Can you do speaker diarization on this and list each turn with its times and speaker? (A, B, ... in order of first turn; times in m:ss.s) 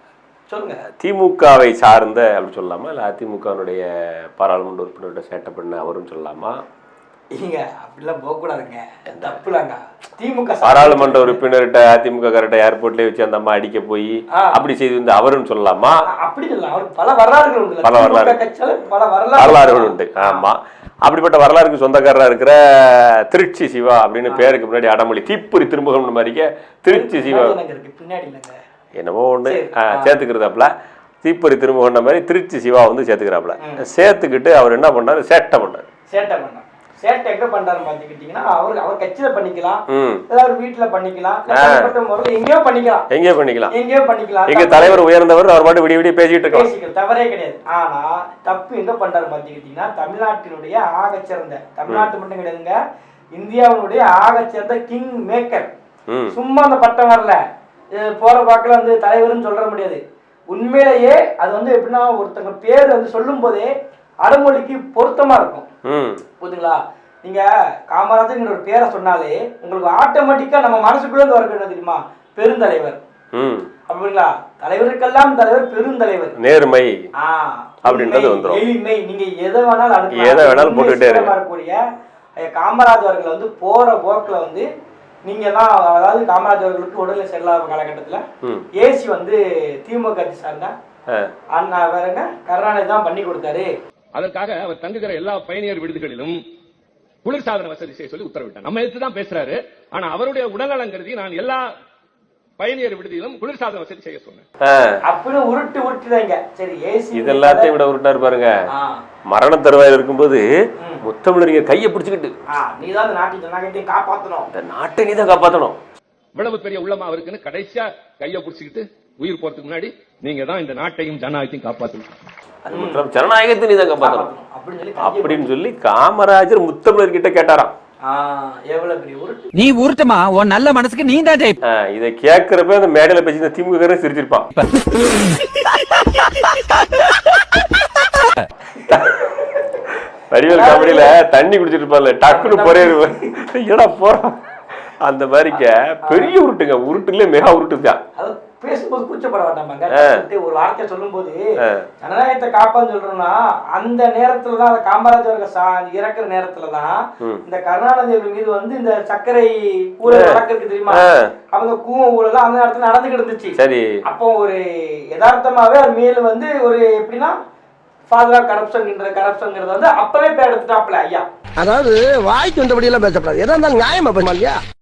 0:00.5-0:00.8 A
0:01.0-0:06.6 B
0:07.3-0:11.4 A
0:09.1-0:09.4 B
0:10.6-0:16.0 B
0:14.3-0:14.6 A
0:16.0-0:20.4 A
0:17.8-0:18.4 B
0:19.3-0:27.6 B
0:26.9-0:28.6 A
0:29.0-0:35.9 B
0:29.5-0:30.2 A
0:36.1-0:43.1 A
0:39.9-0:40.2 B
0:41.5-0:41.9 B
0:43.1-0:43.7 B
0:43.7-0:45.0 A
0:44.5-0:46.7 B
0:46.5-0:52.8 A
0:53.3-0:55.7 A
0:56.1-0:56.4 B
0:56.3-0:57.4 A
0:58.0-1:03.7 A
1:04.2-1:05.7 A
1:05.8-1:06.2 B
1:06.4-1:13.0 A
1:13.3-1:13.7 B
1:13.9-1:16.4 A
1:16.4-1:17.0 B
1:17.2-1:21.8 A
1:17.8-1:18.6 B
1:20.1-1:21.3 B
1:22.4-1:24.7 A
1:25.2-1:28.2 A
1:28.7-1:30.7 A
1:31.5-1:33.7 A
1:34.1-1:36.4 C
1:37.2-1:41.7 C
1:42.6-1:44.4 C
1:44.6-1:45.0 B
1:45.0-1:47.7 A
1:47.1-1:48.5 B
1:48.7-1:49.0 A
1:49.3-1:50.4 B
1:51.0-1:52.3 B
1:52.5-1:54.5 A
1:54.5-1:55.8 B
1:56.4-2:02.1 C
2:02.6-2:04.3 B
2:02.7-2:03.0 A
2:04.0-2:05.5 A
2:05.0-2:07.7 B
2:08.0-2:09.5 A
2:09.6-2:11.6 D
2:11.6-2:14.5 B
2:14.6-2:15.4 D
2:18.8-2:19.6 A
2:20.3-2:24.4 B
2:20.5-2:21.2 A
2:22.3-2:23.3 A
2:25.0-2:28.0 B
2:26.0-2:26.3 A
2:28.2-2:44.6 A
2:29.9-2:30.2 B
2:31.6-2:31.9 B
2:40.0-2:41.3 B
2:43.6-2:44.0 B
2:45.1-2:47.4 A
2:48.1-2:51.3 A
2:51.6-2:54.6 E